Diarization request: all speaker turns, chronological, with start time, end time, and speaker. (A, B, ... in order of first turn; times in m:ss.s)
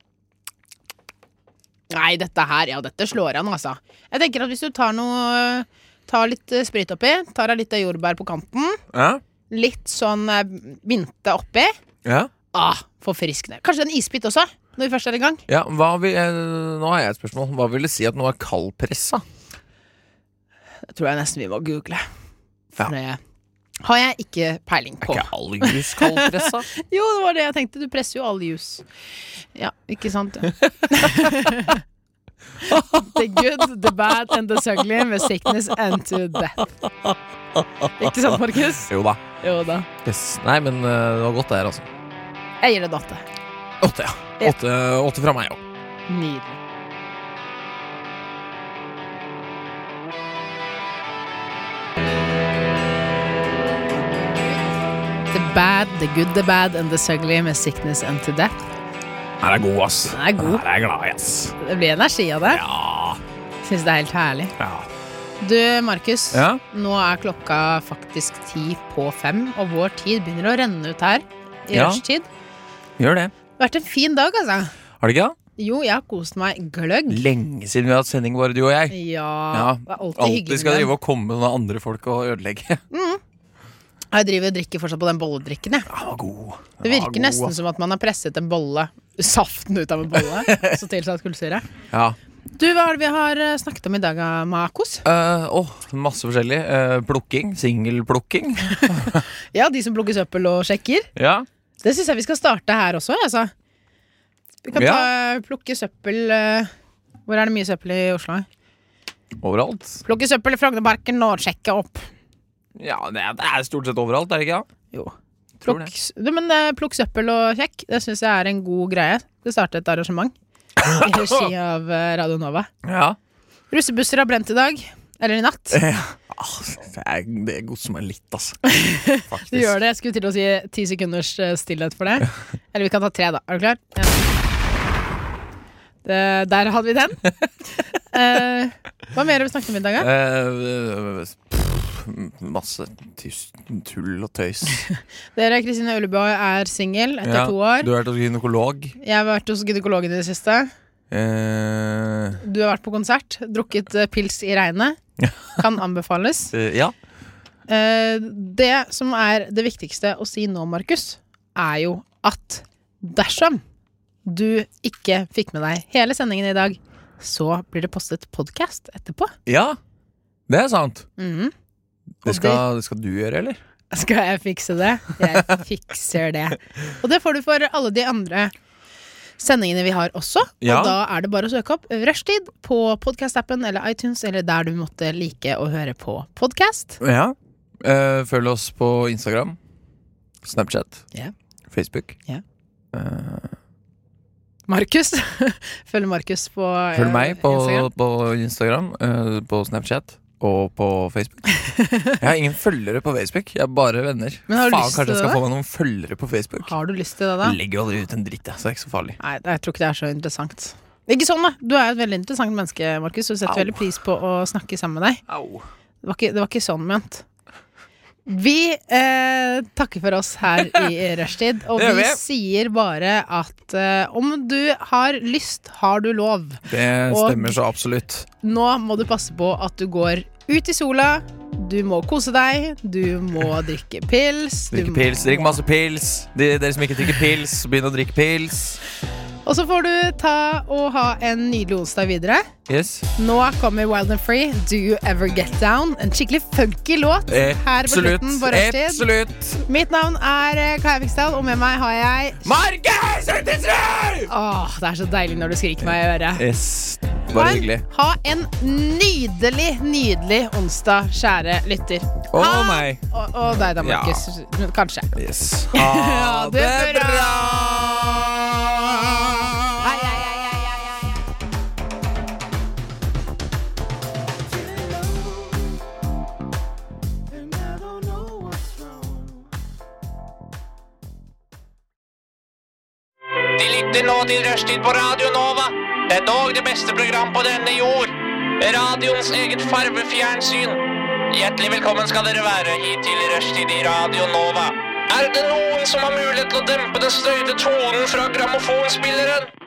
0:01.9-0:08.8 A
0:08.9-0:09.2 B
0:09.5-0:11.7 A
0:12.0-0:12.3 B
0:12.5-0:15.4 A
0:15.5-0:19.2 B
0:20.9-0:22.0 A
0:22.8-0:23.2 A
0:23.8-0:28.8 A
0:25.0-0:26.7 B
0:29.5-0:31.8 A
0:30.6-0:31.6 B
0:32.6-0:33.9 B
0:32.6-0:36.7 A
0:36.6-0:39.2 B
0:38.0-0:39.9 A
0:40.0-0:41.9 B
0:42.6-0:43.2 A
0:43.8-0:45.6 B
0:46.1-0:46.6 A
0:55.3-0:58.5 A
0:59.4-1:01.6 B
1:00.1-1:00.6 A
1:01.6-1:02.6 A
1:02.5-1:03.2 B
1:03.6-1:04.5 A
1:04.6-1:04.9 B
1:05.4-1:12.3 A
1:06.3-1:06.6 B
1:11.7-1:12.0 B
1:13.0-1:13.3 B
1:13.6-1:14.7 A
1:15.0-1:15.4 B
1:15.6-1:17.2 A
1:17.1-1:19.0 B
1:18.9-1:20.9 A
1:19.5-1:22.8 B
1:22.9-1:23.2 A
1:24.1-1:25.9 A
1:25.9-1:27.6 B
1:26.8-1:31.6 A
1:30.4-1:30.7 B
1:31.9-1:32.2 B
1:32.5-1:35.0 A
1:35.0-1:39.2 B
1:38.8-1:41.1 A
1:41.2-1:41.4 B
1:41.8-1:43.5 A
1:44.6-1:46.7 A
1:44.7-1:45.1 B
1:47.3-1:48.4 A
1:49.4-1:50.0 B
1:50.0-1:52.1 A
1:52.8-1:54.7 B
1:54.9-2:00.3 A
1:55.6-1:55.9 B
2:00.8-2:01.3 B
2:00.9-2:02.7 A
2:02.8-2:03.2 B
2:03.7-2:05.8 A
2:05.7-2:09.7 B
2:08.7-2:14.3 A
2:16.0-2:17.2 A
2:18.1-2:20.1 A
2:20.0-2:24.8 B
2:25.3-2:27.9 A
2:27.2-2:29.0 B
2:29.0-2:30.7 A
2:31.1-2:32.4 B
2:32.4-2:35.0 A
2:35.2-2:35.6 B
2:35.6-2:36.5 A
2:36.5-2:36.9 B
2:37.7-2:43.6 A
2:44.2-2:49.3 A
2:49.4-2:49.8 B
2:50.5-2:51.0 B
2:51.2-2:51.5 A
2:52.2-2:53.6 B
2:52.2-2:52.6 A
2:53.9-2:58.5 A
2:59.4-3:07.0 A
3:00.6-3:01.0 B
3:07.0-3:09.6 B
3:10.4-3:11.0 B
3:11.7-3:12.2 B
3:12.9-3:13.5 B
3:14.7-3:17.9 A
3:16.9-3:21.4 B
3:21.5-3:22.2 A
3:22.2-3:26.7 B
3:24.5-3:25.4 A
3:26.6-3:27.6 A
3:27.4-3:29.2 B
3:29.2-3:35.2 A
3:33.5-3:33.8 B
3:35.3-3:35.6 B
3:36.0-3:37.2 A
3:38.3-3:47.6 A
3:41.7-3:42.2 B
3:46.7-3:48.3 B
3:48.4-3:55.6 A
3:54.7-3:58.8 B
3:59.4-4:02.5 A
4:02.7-4:03.1 B
4:03.2-4:09.0 A
4:07.3-4:09.6 B
4:09.6-4:12.4 A
4:12.4-4:14.3 B
4:14.3-4:16.4 A
4:15.8-4:17.8 B
4:17.3-4:25.1 A
4:22.3-4:23.0 B
4:23.7-4:24.2 B
4:25.1-4:29.8 B
4:25.7-4:27.5 A
4:29.8-4:31.1 A
4:43.6-4:50.8 C
4:51.3-4:59.5 C